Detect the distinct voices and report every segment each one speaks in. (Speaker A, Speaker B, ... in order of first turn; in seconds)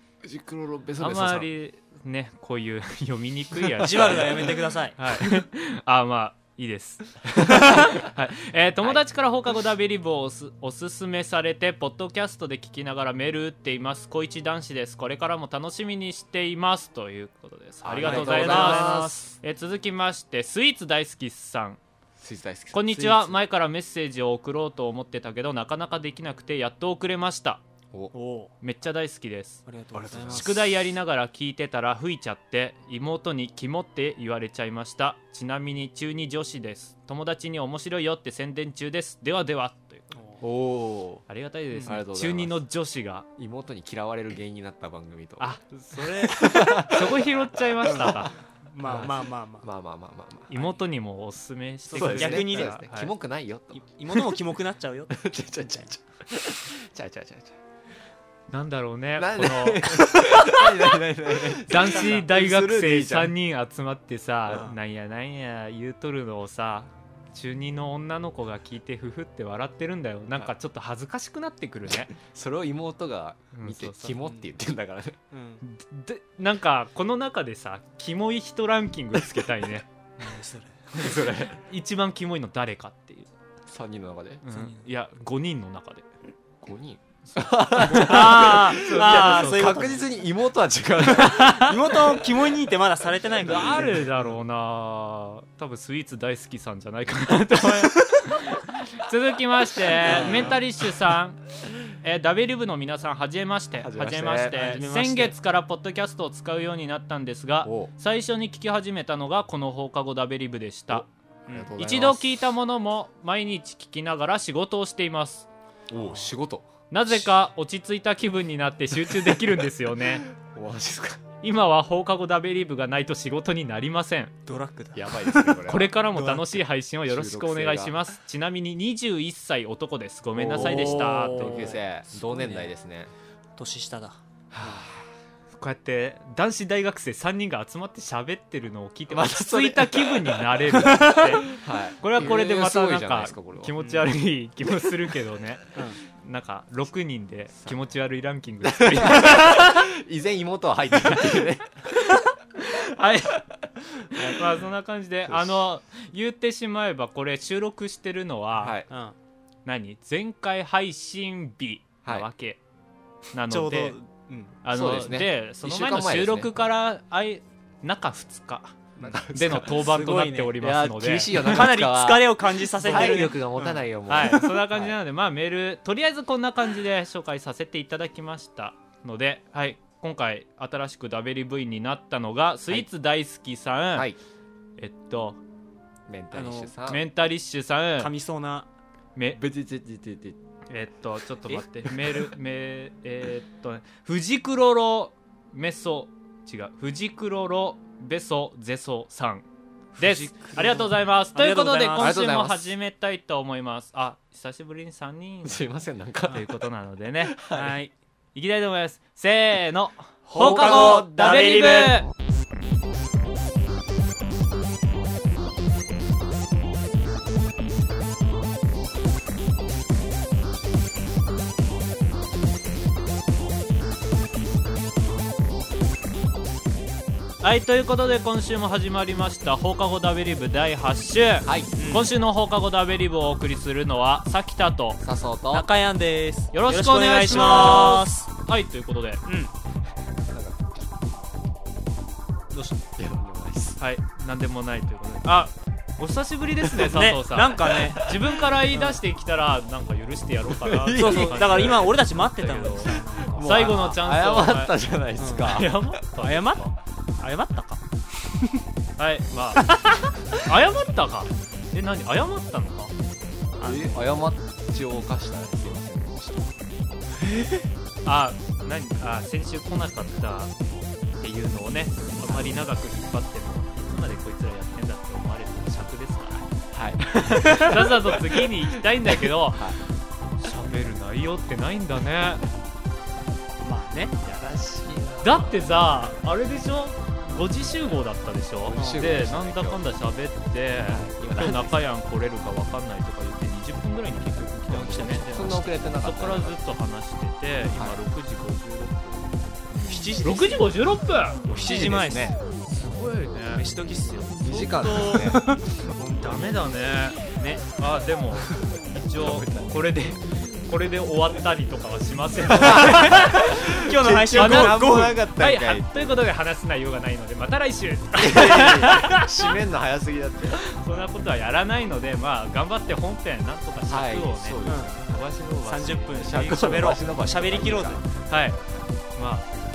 Speaker A: 0.2-1.5, 3.8-4.2, 17.8-19.4, 22.2-23.4, 29.9-30.8, 40.4-41.3, 41.9-42.6, 43.4-48.3, 48.8-50.8, 51.9-54.3, 55.1-57.6, 59.2-63.3, 71.9-75.2, 79.1-79.7, 80.9-81.6, 83.7-84.4, 86.6-92.2, 93.7-94.2, 100.0-100.6, 103.8-104.7, 107.6-107.9, 110.9-112.3, 115.9-116.7, 120.3-121.2, 124.9-126.0, 126.5-128.0, 130.4-133.1, 134.5-135.1, 139.1-140.6, 141.5-143.7, 147.6-147.9, 148.6-151.7, 154.2-154.5, 155.3-155.7, 158.6-158.9, 164.7-166.6, 169.0-170.0, 170.6-174.9, 186.1-187.0, 189.4-190.4, 191.4-192.3, 202.0-202.7, 205.4-207.8, 210.3-211.7, 231.4-231.8, 235.0-235.7, 237.3-237.9, 240.3-240.6, 243.0-243.8, 246.6-248.2, 250.5-252.0, 252.9-255.9, 263.6-266.6, 272.2-272.6, 276.7-277.9, 279.1-279.8, 284.2-286.1, 288.7-289.9, 290.9-291.9, 294.8-296.6, 297.6-298.0, 301.5-302.4, 304.4-305.4, 309.1-310.3, 312.6-316.2, 318.1-320.6, 323.9-325.0, 326.2-328.1
Speaker B: 1.0-21.8, 22.7-27.6, 28.6-29.6, 30.3-40.1, 41.3-43.3, 45.4-48.3, 50.5-53.1, 58.5-60.5, 61.6-72.2, 73.5-74.2, 75.6-79.9, 81.7-83.3, 84.4-86.0, 87.3-90.0, 91.3-91.8, 93.4-111.1, 111.8-115.5, 116.9-120.3, 121.4-124.4, 125.7-131.8, 135.5-149.9, 152.1-153.4, 154.0-158.8, 159.7-162.6, 163.3-164.0, 164.6-168.8, 169.3-171.6, 172.8-173.3, 174.1-184.1, 184.8-185.4, 186.8-188.1, 189.2-189.4, 190.7-199.4, 200.0-205.6, 206.3-207.4, 208.3-212.1, 227.4-235.0, 236.5-239.2, 243.8-254.8, 255.3-256.7, 259.0-262.9, 268.1-270.5, 271.2-276.4, 277.1-279.7, 280.4-282.4, 285.2-301.5, 302.7-303.6, 304.3-305.4, 306.2-313.6, 314.3-319.5, 320.6-326.9, 328.3-328.6, 329.1-329.5
Speaker C: 3.8-5.0, 7.5-7.8, 18.0-19.2, 28.1-28.5, 29.7-30.5, 40.1-40.4, 48.7-49.7, 51.9-52.8, 53.7-55.9, 61.7-62.2, 64.5-64.8, 75.3-75.6, 80.2-81.0, 84.5-84.9, 87.8-90.2, 91.0-94.1, 100.0-100.6, 104.5-105.3, 116.0-116.3, 124.5-126.5, 130.5-132.7, 133.6-134.9, 140.8-141.4, 143.8-144.1, 158.9-159.2, 163.5-164.6, 169.1-170.5, 171.3-174.6, 186.3-186.8, 188.0-188.7, 200.0-202.2, 207.5-207.9, 210.3-212.0, 231.8-232.1, 235.5-238.3, 239.3-239.5, 246.8-248.1, 248.7-249.0, 250.9-253.9, 255.2-255.6, 256.2-256.6, 257.2-258.6, 263.6-264.0, 267.4-267.6, 277.4-277.7, 283.6-284.2, 288.8-289.1, 294.7-295.6, 299.9-300.7, 301.5-302.4, 303.5-304.4, 305.0-306.6, 307.4-307.6, 308.4-308.7, 312.6-315.2, 324.6-325.1, 325.6-328.1